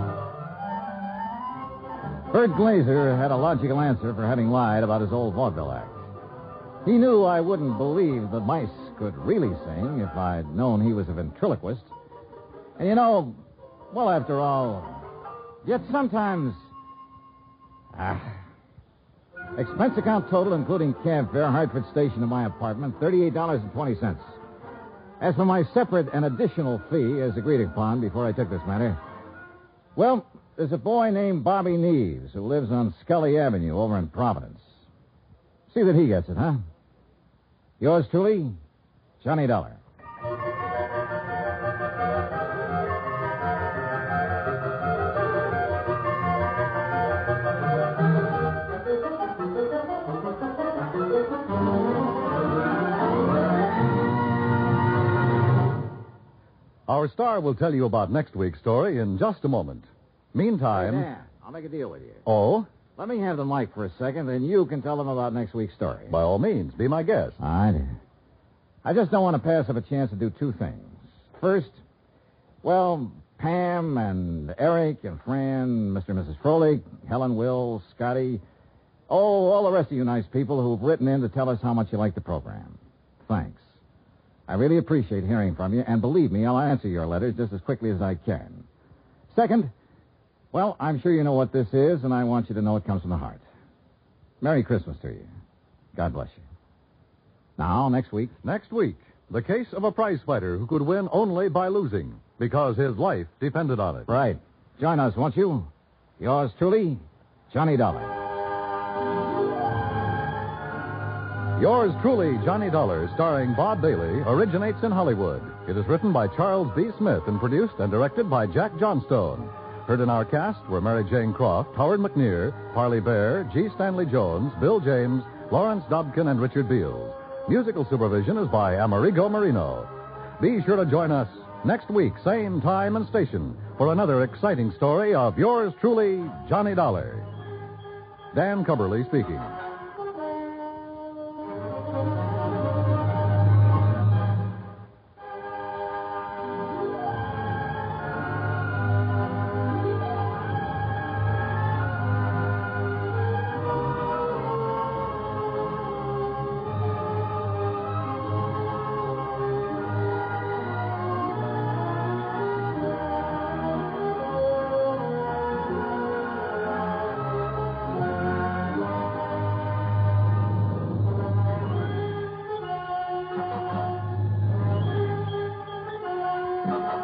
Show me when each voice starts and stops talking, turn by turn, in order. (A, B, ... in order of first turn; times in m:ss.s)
0:02.3-0:06.0 A
0:06.8-0:11.9 A
0:12.8-0:13.4 A
0:13.9-0:15.0 A
0:15.6-0:16.7 A
0:17.9-0:18.4 A
0:19.5-0:24.4 A
0:25.2-0:29.0 A
0:29.9-0:34.7 A
0:35.7-0:36.6 A
0:37.8-0:38.6 A
0:39.2-0:39.8 A
0:56.9-1:01.1 B
1:00.7-1:02.2 A
1:02.2-1:02.7 B
1:03.0-1:06.1 A
1:06.1-1:07.4 B
1:07.4-1:07.9 A
1:08.8-1:11.8 A
1:12.6-1:18.4 A
1:19.1-1:23.7 A
1:24.5-1:28.6 A
1:29.3-1:29.7 A
1:30.5-1:33.4 A
1:34.4-1:35.3 A
1:35.9-1:36.4 A
1:37.6-1:38.3 A
1:38.4-1:44.1 B
1:44.1-1:48.2 A
1:51.6-2:17.3 B
2:18.3-2:19.6 B